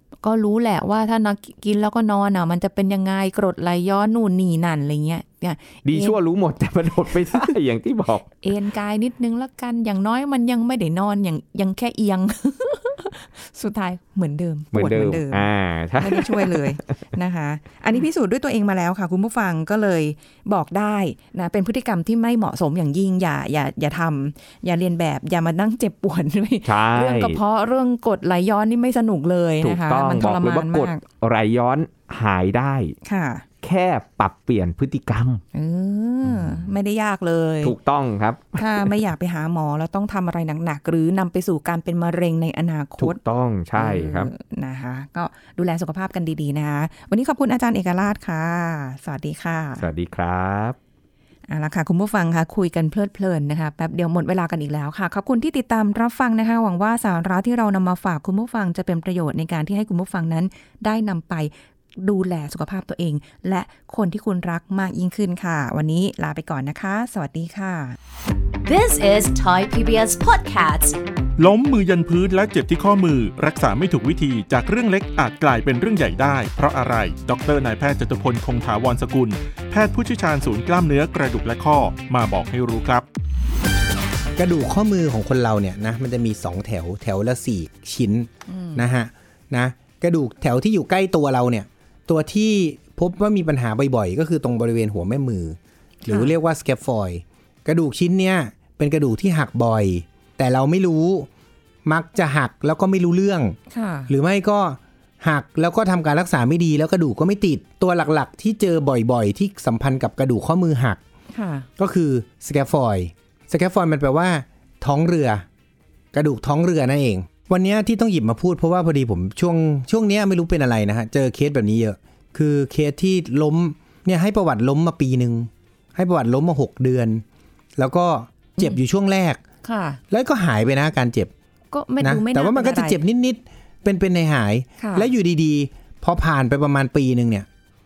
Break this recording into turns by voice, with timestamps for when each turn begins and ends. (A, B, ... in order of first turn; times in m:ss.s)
0:00.2-0:06.2 A
0:05.8-0:08.3 B
0:07.1-0:07.5 A
0:08.4-0:31.0 A
0:14.7-0:16.8 B
0:26.6-0:27.4 B
0:29.6-0:33.0 B
0:33.0-0:33.4 A
0:33.6-0:35.4 B
0:35.5-0:37.8 A
0:36.2-0:36.6 B
0:37.6-0:39.0 B
0:38.6-0:43.2 A
0:43.0-0:44.3 B
0:43.8-0:49.9 A
0:49.8-0:50.8 B
0:51.5-1:08.0 A
1:08.6-1:11.0 C
1:11.4-1:23.0 D
1:24.4-1:41.3 E
1:28.5-1:28.9 A
1:36.0-1:36.3 A
1:41.8-1:43.6 E
1:43.7-1:44.1 A
1:44.1-1:51.0 E
1:51.3-1:51.7 A
1:51.8-1:55.4 E
1:56.1-2:07.2 E
2:07.8-2:09.4 E
2:09.6-2:10.0 A
2:10.1-2:11.3 E
2:11.7-2:13.0 A
2:12.0-2:17.5 E
2:14.8-2:15.1 A